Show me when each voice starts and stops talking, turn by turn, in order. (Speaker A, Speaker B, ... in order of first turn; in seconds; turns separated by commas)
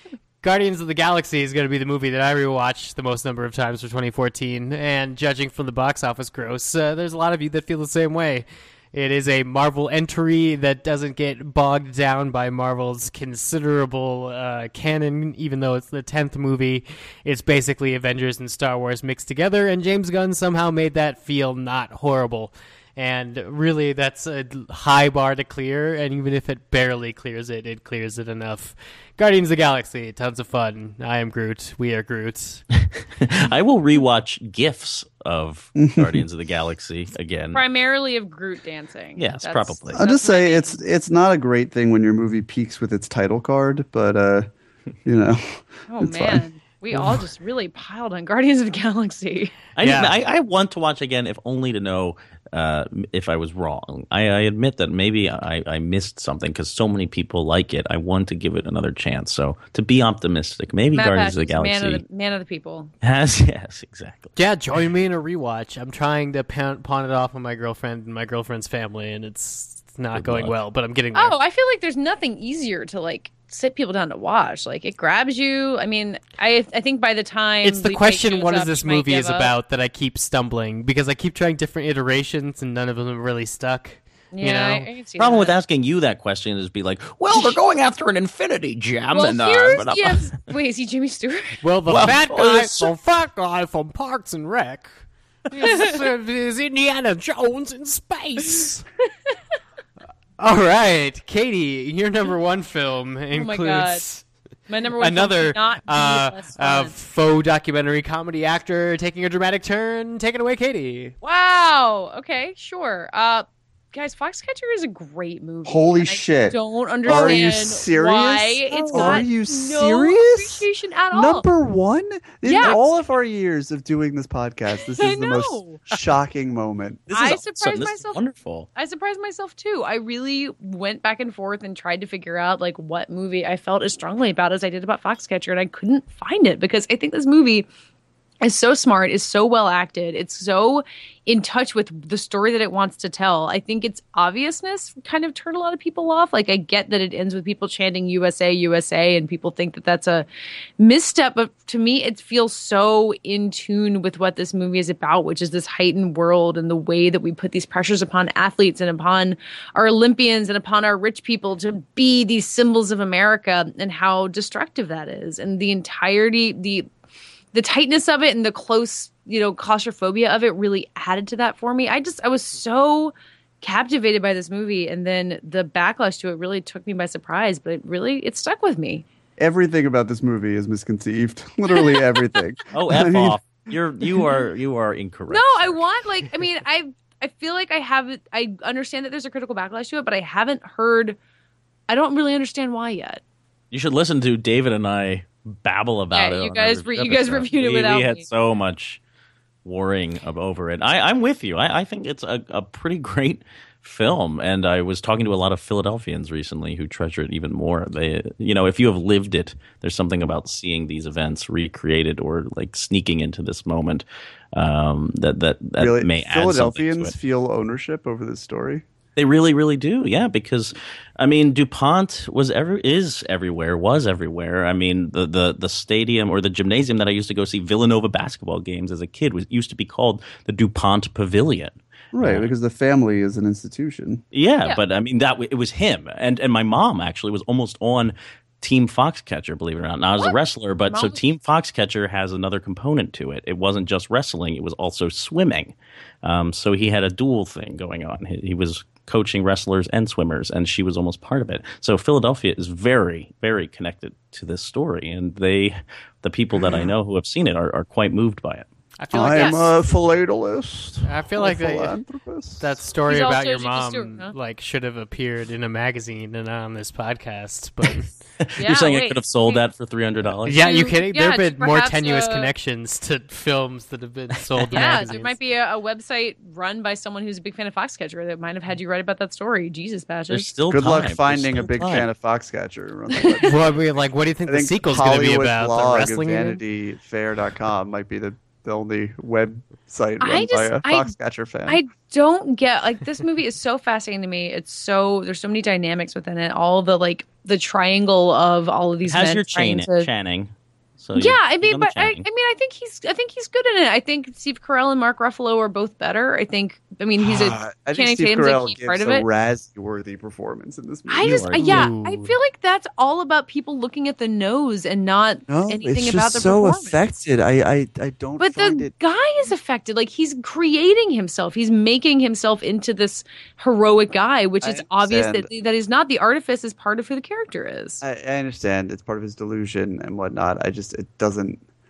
Speaker A: 0.4-32.6, Speaker B: 33.2-37.6, Speaker C: 35.8-36.2, Speaker D: 37.5-40.8, Speaker B: 39.2-40.0, Speaker C: 39.9-44.5, Speaker C: 45.0-46.5, Speaker D: 45.9-49.6, Speaker A: 46.9-47.2, Speaker B: 49.8-62.0, Speaker A: 49.8-50.2, Speaker D: 60.9-62.9, Speaker B: 63.0-64.3, Speaker A: 64.4-71.4, Speaker B: 70.1-70.5, Speaker D: 71.2-79.5, Speaker A: 77.6-84.9, Speaker D: 84.3-85.5, Speaker B: 85.2-90.4, Speaker D: 89.1-91.6, Speaker A: 91.6-94.9, Speaker B: 91.9-92.9, Speaker A: 95.5-98.8, Speaker A: 100.4-104.2, Speaker D: 103.3-104.1, Speaker D: 104.7-107.0, Speaker A: 105.0-111.2, Speaker D: 111.2-121.4, Speaker C: 115.7-127.4, Speaker B: 117.1-117.4, Speaker B: 118.9-119.3, Speaker D: 122.5-122.8, Speaker D: 125.0-125.8, Speaker D: 127.1-137.7, Speaker B: 127.2-128.7, Speaker D: 138.4-150.3, Speaker D: 150.8-166.9, Speaker D: 167.5-179.1, Speaker C: 179.4-183.4, Speaker B: 182.7-185.8, Speaker D: 185.3-191.2, Speaker D: 191.9-193.2, Speaker B: 193.7-199.0, Speaker D: 196.1-198.2, Speaker B: 199.7-217.1, Speaker C: 215.8-218.8, Speaker B: 219.2-232.5, Speaker C: 232.1-234.2, Speaker B: 234.3-258.7, Speaker D: 240.9-241.2, Speaker A: 259.0-259.6, Speaker C: 259.1-262.8, Speaker D: 259.3-259.6, Speaker A: 261.1-262.0, Speaker A: 262.6-268.1, Speaker D: 263.1-264.3, Speaker B: 268.4-270.7, Speaker D: 268.6-269.6, Speaker A: 270.5-275.3, Speaker D: 270.6-272.5, Speaker B: 274.6-275.0, Speaker D: 274.7-280.5, Speaker B: 280.3-282.1, Speaker C: 280.7-283.6, Speaker A: 283.4-286.6, Speaker C: 284.5-291.8, Speaker D: 290.2-291.1, Speaker D: 291.7-300.1, Speaker B: 299.1-302.2, Speaker D: 301.2-309.2, Speaker C: 307.2-311.8, Speaker D: 311.1-317.0, Speaker B: 311.2-311.8, Speaker A: 311.6-312.3, Speaker C: 315.5-318.9, Speaker D: 318.4-328.0, Speaker C: 324.6-325.5, Speaker C: 328.0-331.6